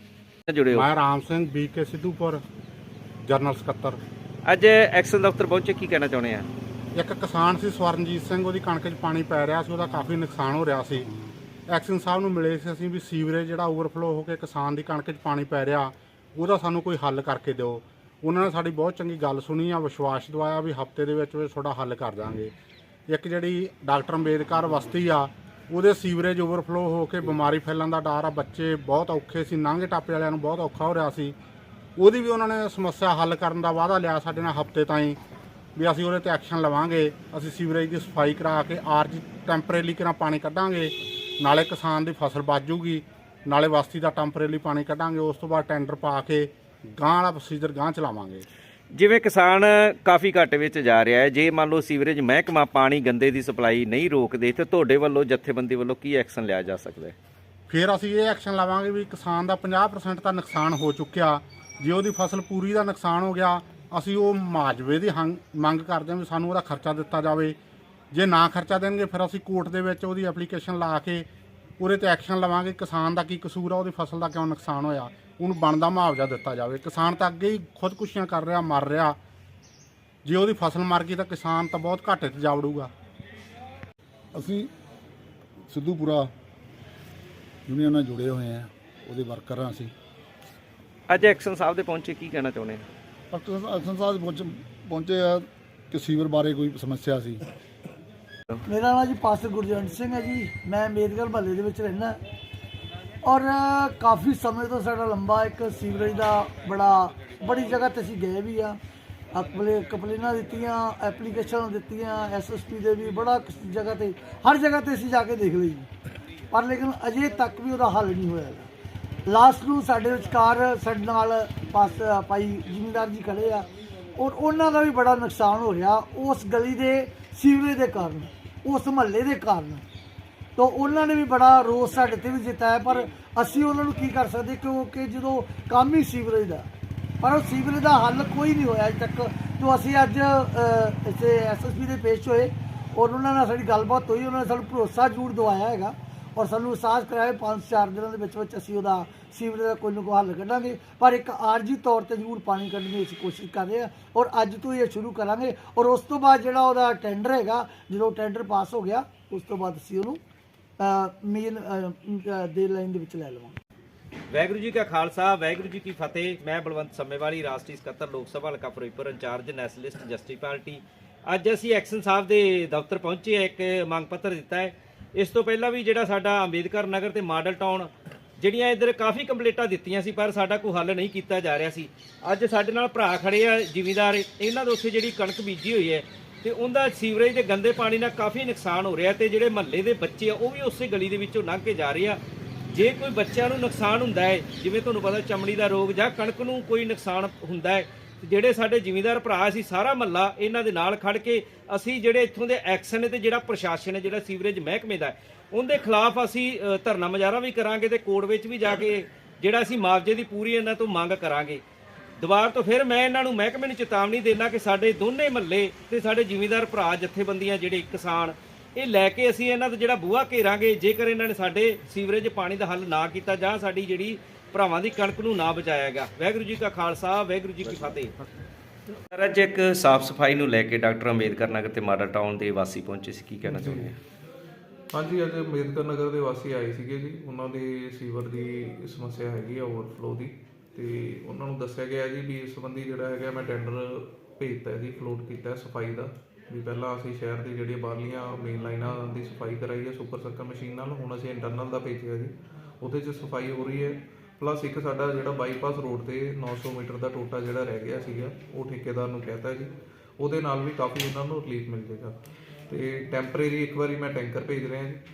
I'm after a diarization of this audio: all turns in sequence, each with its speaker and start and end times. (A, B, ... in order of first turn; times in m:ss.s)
0:00.5-0:00.8 A
0:00.7-0:02.4 B
0:03.2-0:04.0 B
0:04.5-0:06.5 A
0:07.0-0:11.1 B
0:11.7-0:22.5 B
0:23.1-0:31.4 B
0:32.0-0:35.2 B
0:35.8-0:48.5 B
0:48.9-0:57.2 A
0:57.7-1:07.6 B
1:08.1-1:11.3 B
1:11.8-1:19.2 B
1:20.2-1:22.9 B
1:24.3-1:24.7 C
1:25.7-1:26.3 C
1:27.7-1:29.9 C
1:31.1-1:32.9 A
1:33.3-1:37.4 C
1:38.7-1:42.2 D
1:43.2-1:48.8 D
1:49.3-1:55.9 D
1:56.5-1:58.7 D
1:59.3-2:09.8 D
2:10.6-2:16.7 D
2:17.2-2:40.2 D
2:40.8-2:43.6 D
2:44.3-3:31.6 A
3:32.2-3:48.1 A
3:49.1-3:54.0 A
3:53.4-3:53.9 E
3:54.9-4:22.2 E
4:22.7-4:25.0 E